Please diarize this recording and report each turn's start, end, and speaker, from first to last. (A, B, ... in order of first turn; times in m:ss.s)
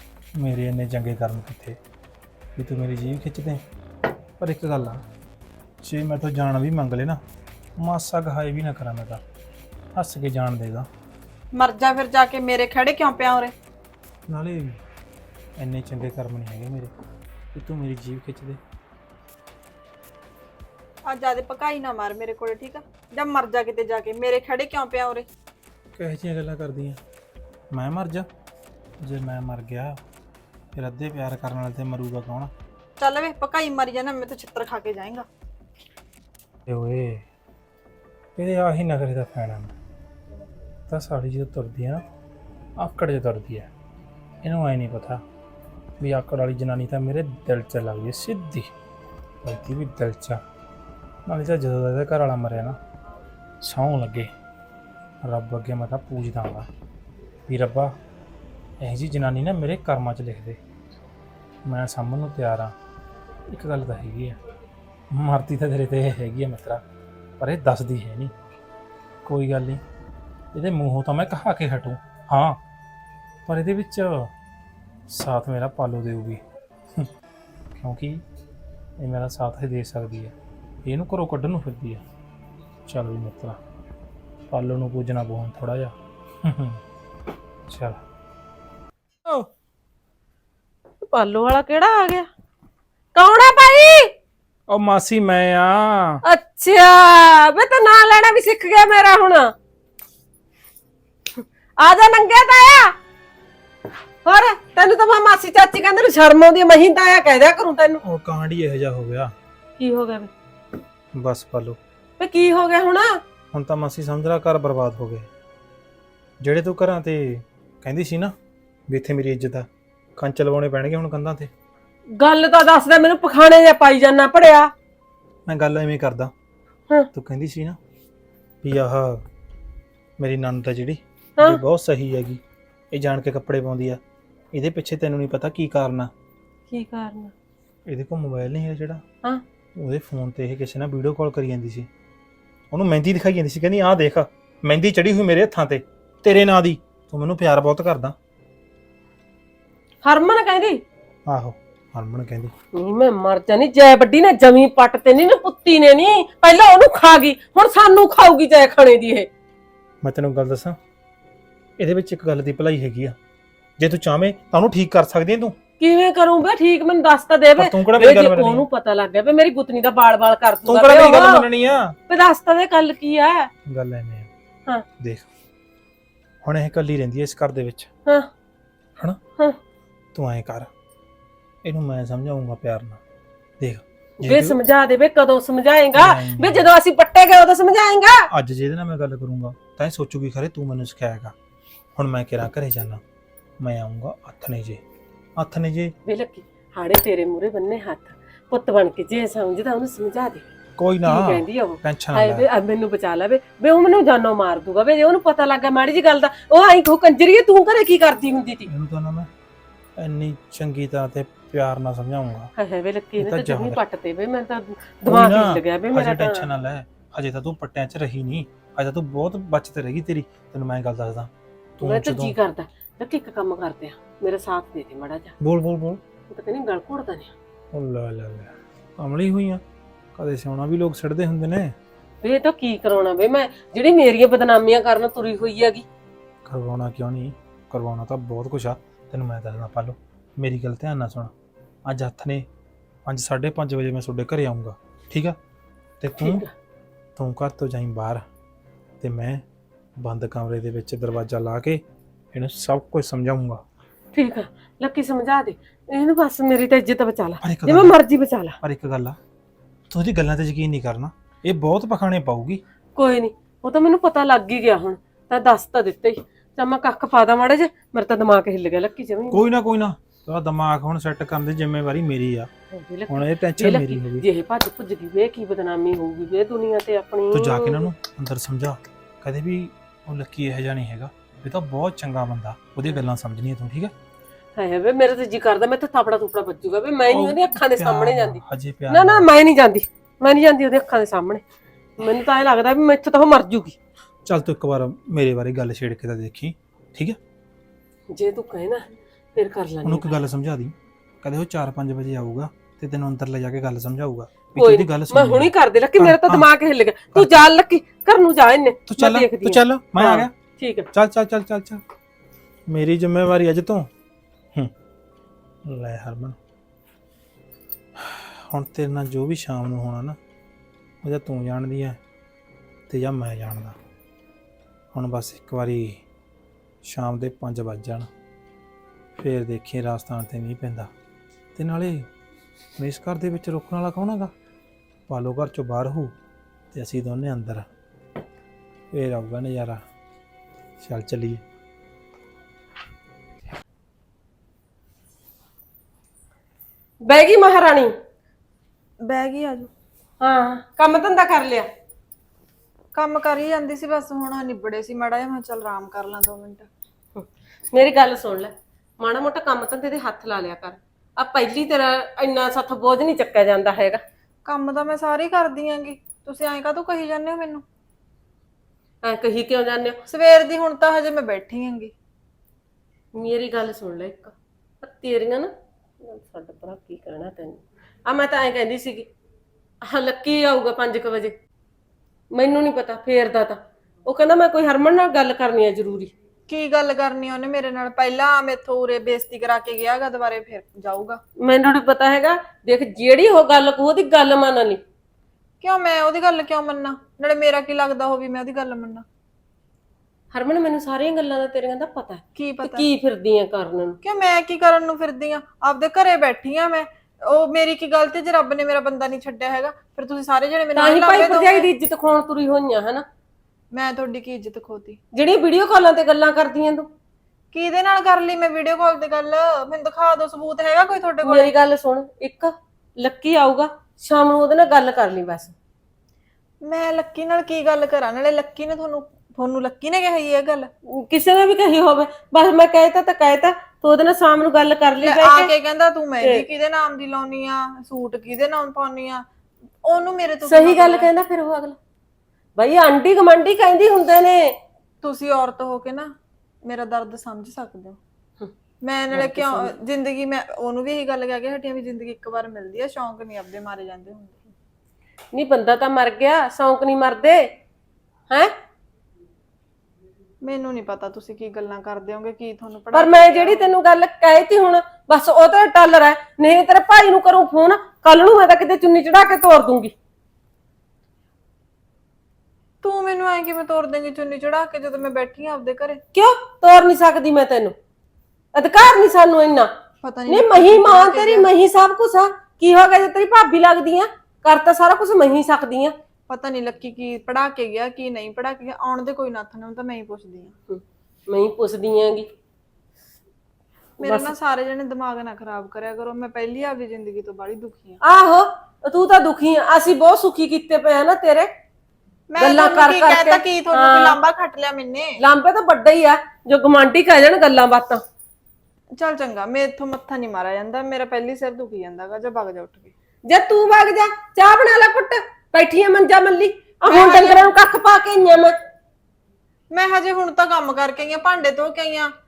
0:00.4-0:01.8 A
0:02.6-0:03.6 A
0:04.4-0:05.0 A
0:05.8-0:07.2 A
0:07.8-0:09.2 A
0:10.0-0:10.9 A
0:11.5-0:13.5 B
0:14.3-0:14.8 A
0:15.6-0:16.9 A
0:17.5-0:18.6 A
0:21.0-0:25.3 B
0:26.0-0:27.0 A
0:27.7-0:28.3 A
0:29.0-0:30.0 A
0:30.8-0:32.5 A
0:33.0-0:35.3 B
0:36.6-0:37.3 A
0:38.4-0:39.7 A
0:40.9-0:42.0 A
0:42.8-0:43.7 A
0:44.4-0:45.2 A
0:46.0-0:48.7 A
0:49.4-0:50.4 A
0:51.2-0:52.8 A
0:53.6-0:54.3 A
0:55.2-0:56.7 A
0:57.5-0:58.0 A
0:58.8-1:00.6 A
1:01.6-1:02.8 A
1:03.5-1:04.4 A
1:05.1-1:06.8 A
1:07.4-1:08.3 A
1:09.2-1:09.8 A
1:10.5-1:12.6 A
1:13.4-1:14.3 A
1:15.1-1:16.4 A
1:17.8-1:18.2 A
1:19.0-1:22.0 A
1:22.9-1:23.6 A
1:24.5-1:26.8 A
1:27.7-1:28.0 A
1:31.0-1:32.3 C
1:33.1-1:34.1 C
1:34.7-1:36.2 A
1:36.2-1:39.5 C
1:41.3-1:42.9 C
1:44.2-1:48.0 C
1:48.0-1:49.3 A
1:49.8-1:50.3 C
1:51.1-1:51.8 A
1:52.2-1:53.2 C
1:53.5-1:55.3 A
1:56.4-1:58.3 A
1:58.9-2:01.5 A
2:02.2-2:04.7 C
2:05.5-2:06.3 A
2:07.1-2:07.8 A
2:08.6-2:09.2 A
2:10.2-2:14.0 A
2:14.5-2:16.1 A
2:16.7-2:17.3 C
2:17.9-2:19.0 A
2:19.7-2:21.9 A
2:22.7-2:28.2 A
2:30.0-2:30.8 C
2:31.3-2:32.5 A
2:32.7-2:39.3 C
2:40.0-2:40.8 A
2:41.8-2:43.2 A
2:43.8-2:45.6 A
2:45.8-2:51.5 C
2:47.6-2:48.6 A
2:50.6-2:52.0 A
2:52.1-2:53.5 C
2:53.6-2:54.3 A
2:55.0-2:55.3 A
2:56.4-2:57.9 A
3:00.1-3:00.7 A
3:01.6-3:03.0 A
3:03.6-3:04.6 A
3:04.2-3:08.3 C
3:05.9-3:06.7 A
3:08.3-3:11.3 A
3:12.0-3:13.0 A
3:13.6-3:14.8 A
3:15.4-3:15.9 A
3:16.0-3:20.4 C
3:20.8-3:22.5 A
3:21.0-3:28.7 C
3:28.7-3:29.3 A
3:30.0-3:32.5 A
3:32.6-3:36.5 C
3:33.2-3:33.8 A
3:35.0-3:42.4 A
3:41.8-3:45.3 C
3:45.4-3:46.0 A
3:46.3-3:47.3 C
3:47.7-3:49.6 A
3:50.1-3:51.8 A
3:52.2-3:55.8 C
3:56.4-4:01.3 A
4:01.8-4:02.4 A
4:03.0-4:05.4 A
4:06.0-4:06.4 A
4:06.2-4:06.5 C
4:07.2-4:08.2 A
4:09.0-4:09.4 A
4:10.0-4:13.6 A
4:14.1-4:18.6 C
4:17.4-4:18.0 A
4:18.6-4:19.2 A
4:19.9-4:22.6 A
4:23.0-4:29.4 C
4:29.3-4:32.5 A
4:32.7-4:37.9 C
4:33.1-4:34.2 A
4:37.3-4:43.9 A
4:44.6-4:51.4 C
4:47.1-4:49.3 A
4:52.0-4:53.8 C
4:54.2-4:57.2 A
4:58.1-5:00.2 C
4:59.8-5:06.5 A
5:04.6-5:10.9 C
5:07.1-5:07.4 A
5:08.9-5:10.3 A
5:10.9-5:11.8 A
5:12.7-5:13.9 A
5:15.6-5:16.4 A
5:18.0-5:20.2 A
5:21.0-5:22.0 A
5:22.9-5:23.8 A
5:24.9-5:26.0 A
5:26.8-5:28.1 A
5:29.2-5:30.9 A
5:31.5-5:32.1 A
5:32.8-5:34.3 A
5:35.1-5:36.1 A
5:36.7-5:37.6 A
5:38.9-5:39.8 A
5:40.8-5:41.4 A
5:47.0-5:47.9 C
5:49.0-5:49.7 B
5:50.2-5:51.7 C
5:52.9-5:56.7 B
5:57.1-6:04.0 C
6:04.4-6:07.6 B
6:09.0-6:10.0 C
6:10.1-6:11.9 B
6:13.1-6:19.1 C
6:19.8-6:21.3 C
6:22.3-6:26.1 C
6:26.5-6:31.2 B
6:31.4-6:34.8 C
6:35.6-6:39.0 B
6:40.3-6:44.0 C
6:42.4-6:42.9 B
6:44.0-6:51.7 B
6:50.8-6:53.0 C
6:53.7-6:55.0 B
6:55.1-6:56.9 C
6:57.5-7:01.5 B
7:01.2-7:05.5 C
7:06.6-7:10.7 B
7:10.9-7:15.5 C
7:15.0-7:19.2 B
7:19.8-7:21.1 B
7:20.4-7:21.8 C
7:22.6-7:24.6 C
7:25.0-7:26.1 B
7:26.6-7:28.0 B
7:28.8-7:34.5 B
7:29.1-7:29.7 C
7:35.3-7:37.5 C
7:40.4-7:43.7 B
7:42.9-7:49.9 C
7:52.8-7:56.0 B
7:56.1-7:57.7 C
7:58.5-7:59.7 C
8:00.0-8:01.5 B
8:00.3-8:05.9 C
8:06.3-8:10.5 B
8:10.7-8:12.3 C
8:14.0-8:18.0 B
8:14.0-8:14.3 C
8:18.0-8:21.5 C
8:22.3-8:25.2 B
8:22.4-8:24.2 C
8:25.2-8:28.0 C
8:29.0-8:32.9 B
8:33.2-8:38.6 C
8:36.9-8:37.4 B
8:39.7-8:42.1 B